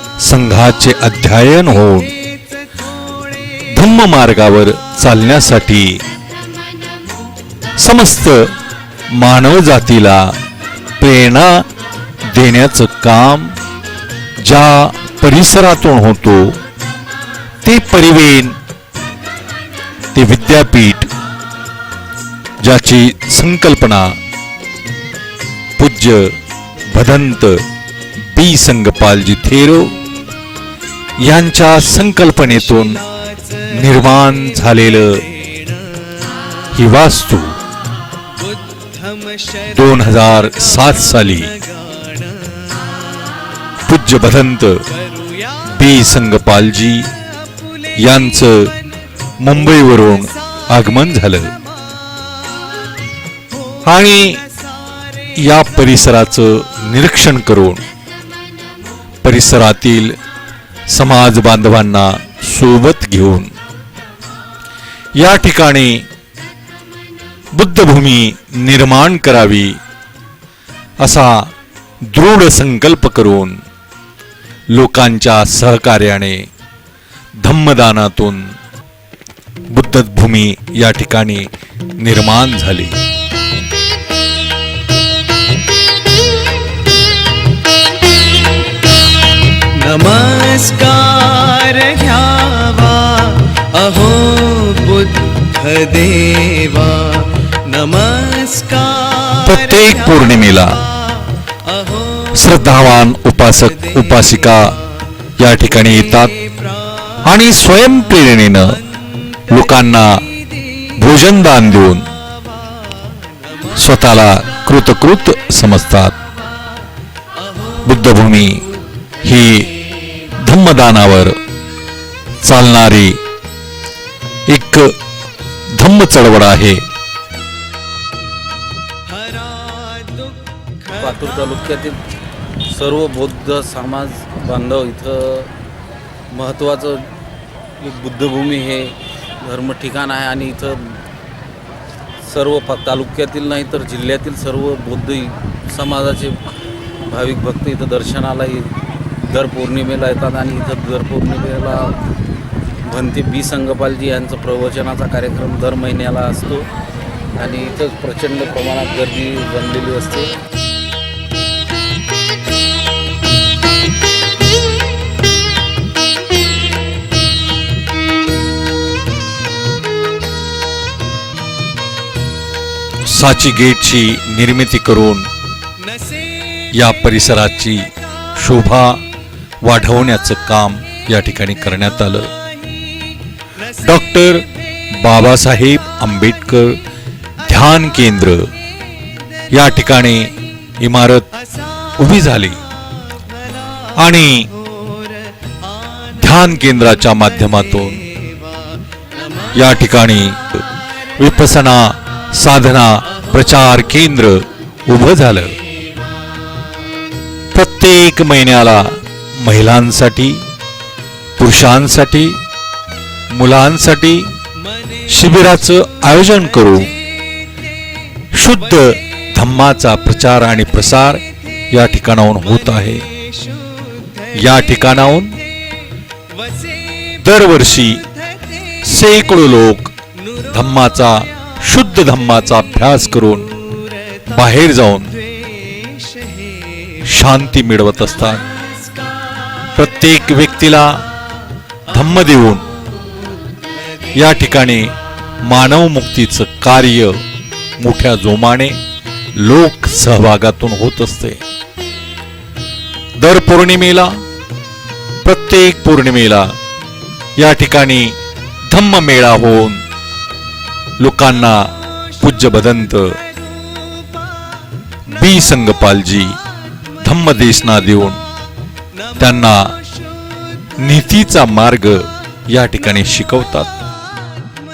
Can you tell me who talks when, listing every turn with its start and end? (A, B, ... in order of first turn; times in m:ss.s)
0:00.2-0:02.2 A
0:03.7-0:06.0 A
0:07.8-0:08.5 A
0:09.1-0:10.3 A
0:11.0-0:11.7 A
0:12.3-0:13.6 A
0:14.4-0:16.6 A
0:17.6-0:18.6 A
0:20.2-0:21.1 A
0:22.6-0:24.2 A
0:25.8-0:26.4 A
0:26.9-0:27.6 A
0:28.2-0:29.9 A
0:31.2-0:33.0 A
0:33.7-0:35.2 A
0:36.7-0:37.6 A
0:38.4-0:39.7 B
0:39.7-0:41.6 A
0:41.7-0:42.8 B
0:43.9-0:44.8 A
0:45.2-0:45.5 B
0:45.7-0:47.1 A
0:48.0-0:48.7 A
0:49.4-0:51.5 A
0:53.8-0:54.4 A
0:55.4-0:57.8 A
0:59.2-1:00.2 A
1:00.9-1:03.5 A
1:05.2-1:06.0 A
1:07.5-1:09.8 A
1:11.0-1:11.5 A
1:12.1-1:13.6 A
1:14.7-1:16.5 A
1:17.4-1:18.5 A
1:19.7-1:21.5 A
1:22.0-1:23.0 A
1:29.8-1:39.4 B
1:39.4-1:40.9 A
1:41.2-1:42.3 B
1:42.3-1:44.7 A
1:45.4-1:46.4 A
1:47.2-1:48.8 A
1:49.5-1:50.2 A
1:51.0-1:52.1 A
1:53.7-1:56.2 A
1:57.8-1:58.6 A
1:59.2-1:59.7 A
2:00.4-2:01.4 A
2:02.4-2:03.2 A
2:04.5-2:04.9 A
2:05.8-2:06.8 A
2:09.1-2:11.0 B
2:11.0-2:12.0 C
2:12.8-2:15.5 C
2:16.3-2:17.1 C
2:17.8-2:20.8 C
2:22.3-2:26.4 C
2:27.1-2:28.7 C
2:29.3-2:32.0 C
2:32.9-2:36.7 C
2:37.4-2:40.4 C
2:53.1-2:55.3 A
2:56.7-2:59.0 A
2:59.6-3:02.3 A
3:03.8-3:06.8 A
3:07.4-3:08.5 A
3:09.5-3:11.3 A
3:12.0-3:12.6 A
3:14.0-3:14.5 A
3:16.1-3:18.1 A
3:19.5-3:20.6 A
3:21.2-3:25.6 A
3:27.5-3:30.4 A
3:31.4-3:32.4 A
3:33.3-3:34.3 A
3:35.1-3:37.0 A
3:38.3-3:43.1 A
3:43.5-3:44.3 B
3:44.3-3:45.4 A
3:46.4-3:47.1 B
3:47.2-3:48.0 A
3:48.8-3:53.6 A
3:54.2-3:55.2 A
3:55.6-3:56.9 B
3:57.0-3:58.5 A
3:59.8-4:01.0 A
4:01.9-4:02.7 A
4:04.1-4:07.2 A
4:07.8-4:08.8 A
4:09.4-4:11.4 A
4:13.2-4:14.2 A
4:15.2-4:16.6 A
4:17.4-4:18.2 A
4:18.7-4:19.8 A
4:21.0-4:23.2 A
4:25.1-4:26.4 A
4:27.0-4:28.2 A
4:29.2-4:29.8 A
4:30.8-4:33.7 A